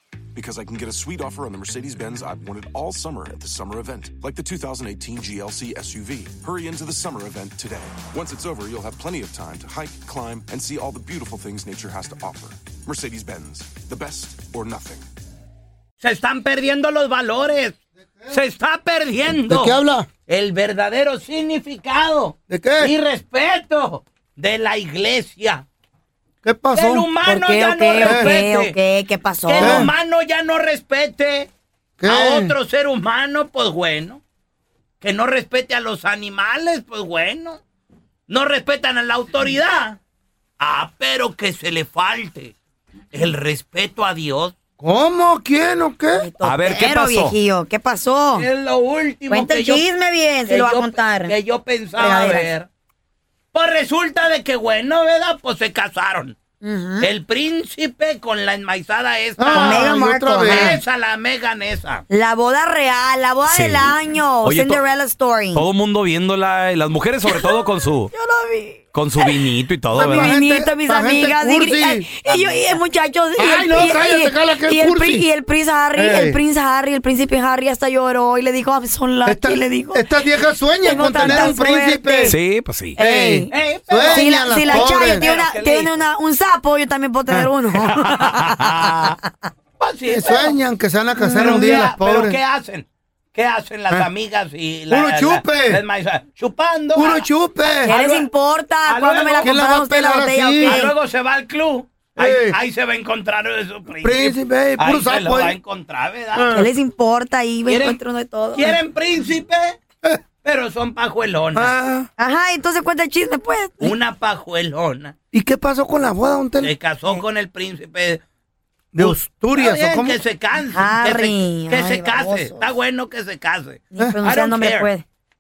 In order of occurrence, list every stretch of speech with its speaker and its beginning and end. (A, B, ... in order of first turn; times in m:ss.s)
0:00.4-0:15.1 A
0:16.0-0:17.8 B
0:18.0-0:18.4 C
0:18.3-0:25.6 B
0:19.5-0:20.1 C
0:22.5-0:22.9 C
0:26.4-0:27.1 C
0:26.7-0:28.8 B
0:27.2-0:29.8 D
0:28.0-0:28.3 C
0:29.5-0:31.5 B
0:29.6-0:29.9 C
0:32.0-0:32.6 C
0:32.1-0:34.2 B
0:35.0-0:37.6 B
0:38.3-0:40.0 B
0:40.6-0:42.6 B
0:43.1-0:44.5 B
0:44.8-0:46.3 C
0:46.1-0:48.5 D
0:46.4-0:47.4 E
0:48.4-0:49.8 B
0:49.3-0:51.3 D
0:50.5-0:52.7 B
0:52.0-0:52.5 D
0:53.5-0:56.4 B
0:56.6-0:57.1 D
0:57.0-1:02.0 B
0:59.4-1:00.8 C
0:59.5-1:00.8 D
1:02.1-1:05.6 D
1:03.5-1:04.8 E
1:05.5-1:08.1 E
1:07.3-1:09.4 D
1:08.9-1:10.4 E
1:10.0-1:12.1 C
1:10.0-1:20.0 D
1:13.4-1:15.3 C
1:16.0-1:16.4 C
1:19.2-1:22.4 C
1:20.8-1:22.4 D
1:21.2-1:21.5 B
1:22.3-1:23.0 E
1:23.0-1:23.5 D
1:23.0-1:25.3 C
1:23.5-1:26.0 B
1:24.1-1:29.3 D
1:28.6-1:29.2 B
1:29.8-1:30.6 B
1:30.1-1:32.4 C
1:31.3-1:37.3 B
1:34.9-1:35.8 C
1:36.9-1:37.9 C
1:37.8-1:38.3 B
1:37.8-1:40.9 D
1:38.8-1:39.6 B
1:39.4-1:40.8 C
1:40.6-1:46.6 B
1:42.2-1:42.6 C
1:44.0-1:45.6 C
1:46.3-1:46.7 C
1:46.5-1:48.8 D
1:47.7-1:48.0 B
1:48.5-1:49.8 B
1:50.4-1:51.7 B
1:51.5-1:52.1 C
1:52.2-1:54.0 D
1:53.8-1:55.2 B
1:55.3-1:56.7 C
1:56.6-1:58.2 B
1:58.9-2:00.2 C
1:59.0-2:04.9 B
2:00.7-2:02.6 D
2:03.9-2:05.0 D